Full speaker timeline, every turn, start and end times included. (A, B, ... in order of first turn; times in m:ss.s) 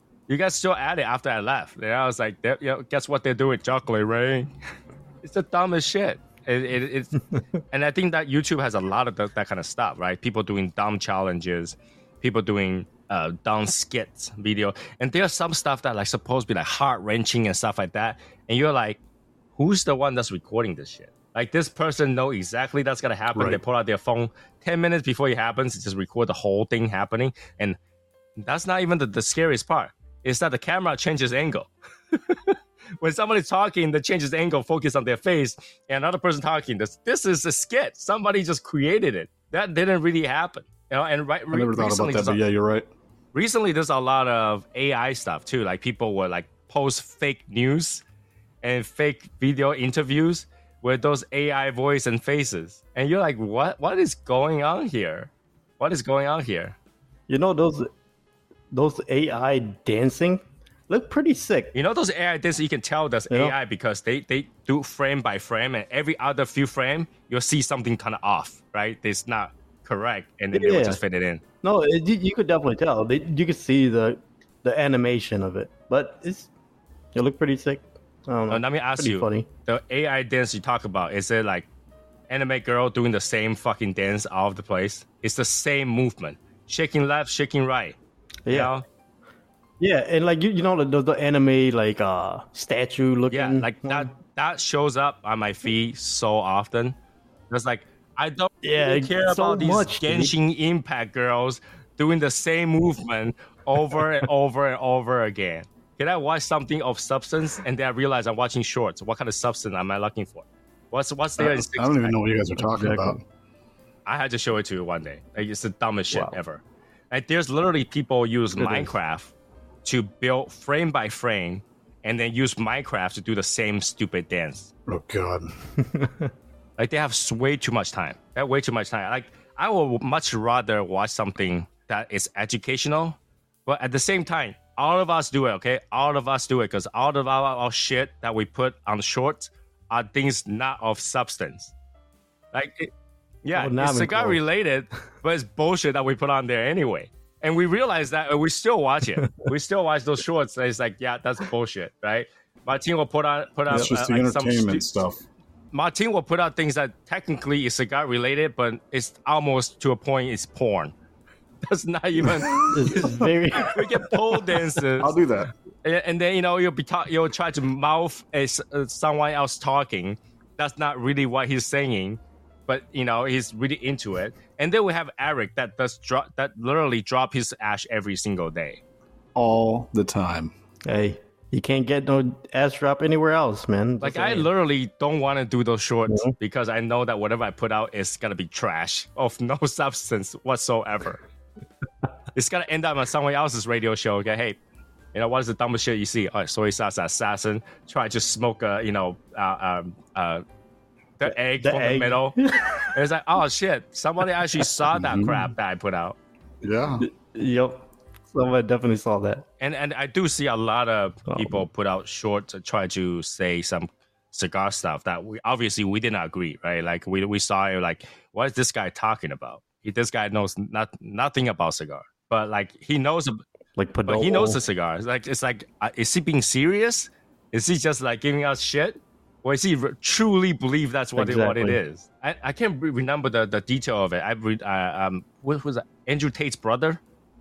0:00.3-0:04.5 A
0:05.2-0:19.0 A
0:19.6-0:27.8 A
0:23.3-0:23.6 B
0:28.4-0:42.4 A
0:41.5-0:42.9 B
0:43.3-0:48.0 A
0:48.6-0:56.8 A
0:57.3-0:57.9 C
0:58.7-1:01.8 C
1:01.7-1:11.4 A
1:03.3-1:03.6 C
1:10.5-1:11.0 C
1:11.6-1:16.5 C
1:17.2-1:19.5 C
1:18.5-1:21.7 A
1:22.3-1:28.0 A
1:28.5-1:28.7 C
1:28.5-1:28.8 A
1:29.8-1:34.1 C
1:33.3-1:37.0 A
1:37.5-1:52.2 A
1:38.6-1:40.3 C
1:51.4-1:53.2 B
1:52.6-1:53.2 C
1:54.1-1:59.3 A
1:58.6-1:58.9 C
1:59.8-2:04.7 A
2:04.9-2:05.5 B
2:05.8-2:06.3 C
2:06.8-2:21.7 A
2:22.5-2:22.9 A
2:23.4-2:35.0 A
2:23.5-2:24.4 C
2:33.7-2:35.2 B
2:35.7-2:40.9 A
2:41.6-2:45.2 A
2:42.2-2:43.1 B
2:42.7-2:44.6 C
2:45.0-2:45.5 B
2:45.8-2:58.8 A
2:59.4-3:00.5 B
3:00.8-3:04.5 C
3:04.0-3:11.2 A
3:12.4-3:14.6 A
3:15.1-3:20.4 A
3:21.2-3:26.2 A
3:21.3-3:22.9 C
3:25.0-3:25.4 B
3:26.6-3:27.1 B
3:27.0-3:29.4 C
3:29.6-3:43.4 A
3:31.3-3:31.6 C
3:43.8-3:44.6 C
3:44.1-3:57.0 A
3:51.2-3:51.8 C